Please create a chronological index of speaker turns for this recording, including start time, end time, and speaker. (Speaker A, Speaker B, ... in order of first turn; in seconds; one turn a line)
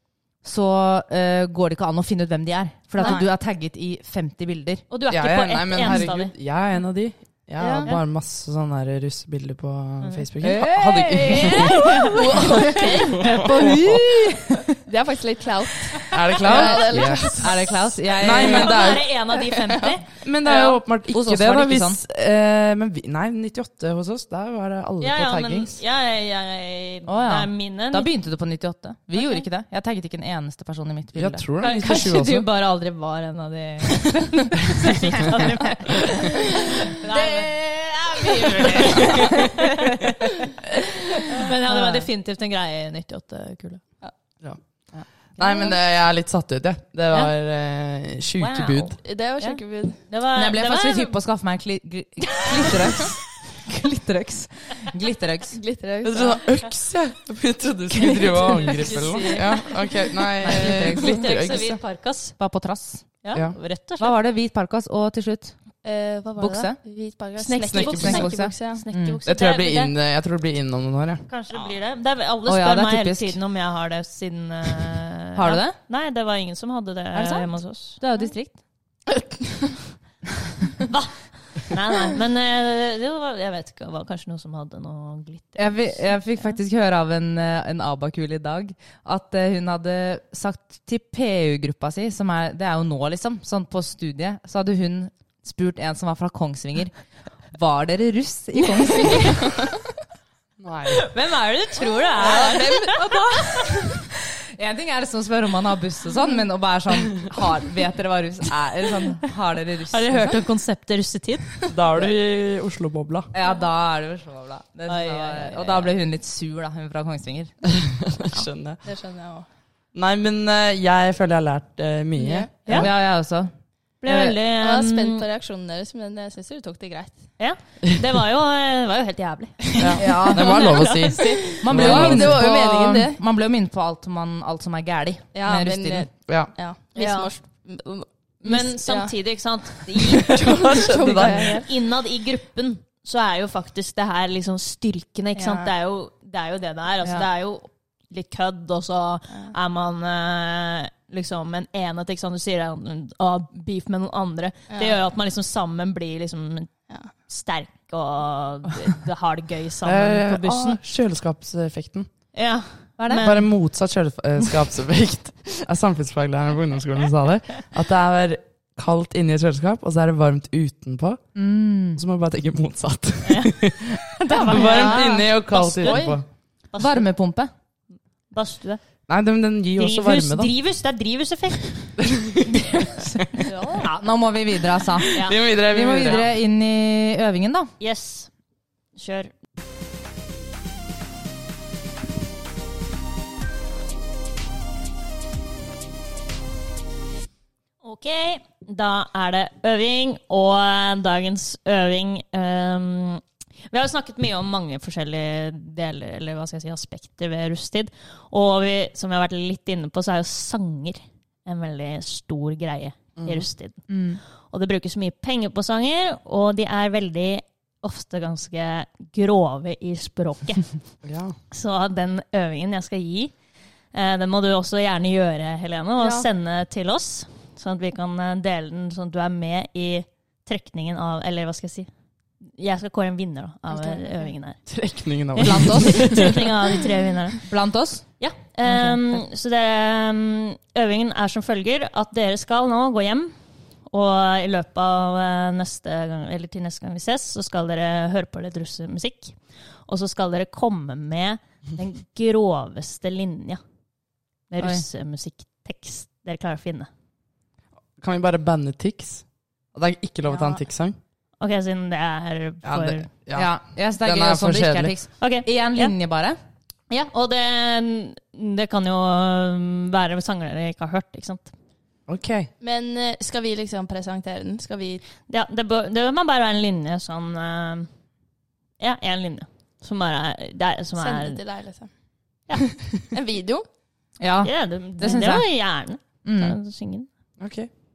Speaker A: 0.4-4.8
Speaker B: 3.0-3.3
Speaker C: 3.0-3.2
Speaker C: 4.9-6.3
Speaker D: 5.1-11.8
Speaker B: 7.6-7.9
Speaker C: 10.0-10.3
Speaker A: 10.4-11.9
Speaker B: 11.3-13.4
Speaker C: 11.5-13.5
Speaker A: 13.2-14.8
Speaker D: 13.2-14.0
Speaker B: 14.8-17.9
Speaker D: 16.1-17.3
Speaker C: 16.4-17.0
Speaker A: 16.5-18.9
Speaker D: 18.2-19.1
Speaker C: 18.3-20.1
Speaker D: 20.1-25.8
Speaker B: 20.5-20.8
Speaker A: 21.1-22.0
Speaker C: 25.0-28.1
Speaker A: 27.1-31.4
Speaker C: 29.1-29.4
Speaker D: 31.1-32.5
Speaker C: 31.6-40.2
Speaker A: 37.1-39.6
Speaker C: 41.3-43.8
Speaker A: 41.7-42.1
Speaker D: 45.3-48.9
Speaker C: 45.4-45.7
Speaker C: 48.4-51.2
Speaker B: 49.0-50.0
Speaker A: 50.3-55.6
Speaker C: 52.5-53.1
Speaker B: 55.5-56.5
Speaker D: 56.0-61.8
Speaker C: 58.0-62.3
Speaker A: 60.4-61.4
Speaker A: 62.4-63.0
Speaker C: 63.2-64.1
Speaker A: 64.0-65.6
Speaker B: 65.8-68.8
Speaker A: 66.4-66.8
Speaker C: 67.4-69.9
Speaker D: 67.7-68.2
Speaker A: 67.8-69.2
Speaker D: 69.2-71.2
Speaker C: 71.3-78.3
Speaker A: 72.5-73.4
Speaker A: 75.3-75.8
Speaker A: 77.1-78.6
Speaker C: 80.9-86.6
Speaker A: 85.6-96.9
Speaker A: 97.5-99.5
Speaker C: 99.0-99.3
Speaker D: 100.6-101.0
Speaker C: 100.9-103.5
Speaker B: 102.2-104.0
Speaker A: 104.5-110.3
Speaker C: 109.9-111.7
Speaker D: 111.7-113.3
Speaker A: 113.3-117.5
Speaker C: 114.9-115.9
Speaker D: 117.8-118.8
Speaker B: 118.8-119.5
Speaker D: 119.9-122.9
Speaker B: 122.2-122.5
Speaker A: 122.7-123.5
Speaker C: 124.0-125.3
Speaker A: 124.0-124.3
Speaker B: 124.5-127.2
Speaker C: 127.4-131.9
Speaker B: 129.7-130.1
Speaker D: 129.8-132.4
Speaker A: 130.0-130.7
Speaker B: 131.5-133.2
Speaker A: 131.6-136.1
Speaker B: 135.3-139.1
Speaker C: 136.9-137.3
Speaker C: 138.4-160.8
Speaker B: 139.9-141.7
Speaker D: 140.3-141.6
Speaker B: 145.3-145.7
Speaker B: 154.7-154.9
Speaker D: 159.8-162.1
Speaker C: 162.3-163.5
Speaker A: 163.0-163.3
Speaker D: 163.2-171.2
Speaker A: 171.3-172.0
Speaker D: 171.9-176.2
Speaker C: 173.2-176.2
Speaker A: 174.4-175.1
Speaker B: 175.8-176.2
Speaker C: 176.7-177.1
Speaker A: 176.8-177.5
Speaker C: 178.3-178.8
Speaker D: 179.1-180.5
Speaker C: 179.7-181.9
Speaker D: 182.0-182.6
Speaker B: 183.4-183.9
Speaker A: 183.8-187.7
Speaker C: 185.1-185.4
Speaker D: 185.1-186.2
Speaker C: 186.0-186.2
Speaker C: 187.8-188.3
Speaker C: 188.9-189.3
Speaker C: 197.8-220.8
Speaker D: 213.2-213.5
Speaker A: 213.9-214.2
Speaker D: 221.0-221.4
Speaker C: 221.5-223.4
Speaker C: 223.9-231.9
Speaker B: 226.0-226.3
Speaker C: 232.4-234.7
Speaker B: 233.7-234.3
Speaker D: 234.7-236.5
Speaker C: 235.3-237.4
Speaker A: 235.4-236.2
Speaker A: 237.4-238.1
Speaker C: 238.2-243.3
Speaker A: 238.6-239.2
Speaker C: 243.8-253.6
Speaker C: 254.5-256.9
Speaker D: 258.0-260.9
Speaker B: 260.3-260.6
Speaker C: 261.4-263.1
Speaker D: 262.6-264.9
Speaker A: 263.3-266.4
Speaker C: 265.2-265.9
Speaker C: 266.9-271.5
Speaker D: 272.1-272.5
Speaker B: 272.6-275.0
Speaker C: 275.3-277.9
Speaker C: 278.8-281.4
Speaker B: 281.0-281.9
Speaker B: 283.0-283.6
Speaker A: 284.2-286.6
Speaker C: 284.4-287.1
Speaker D: 287.4-287.7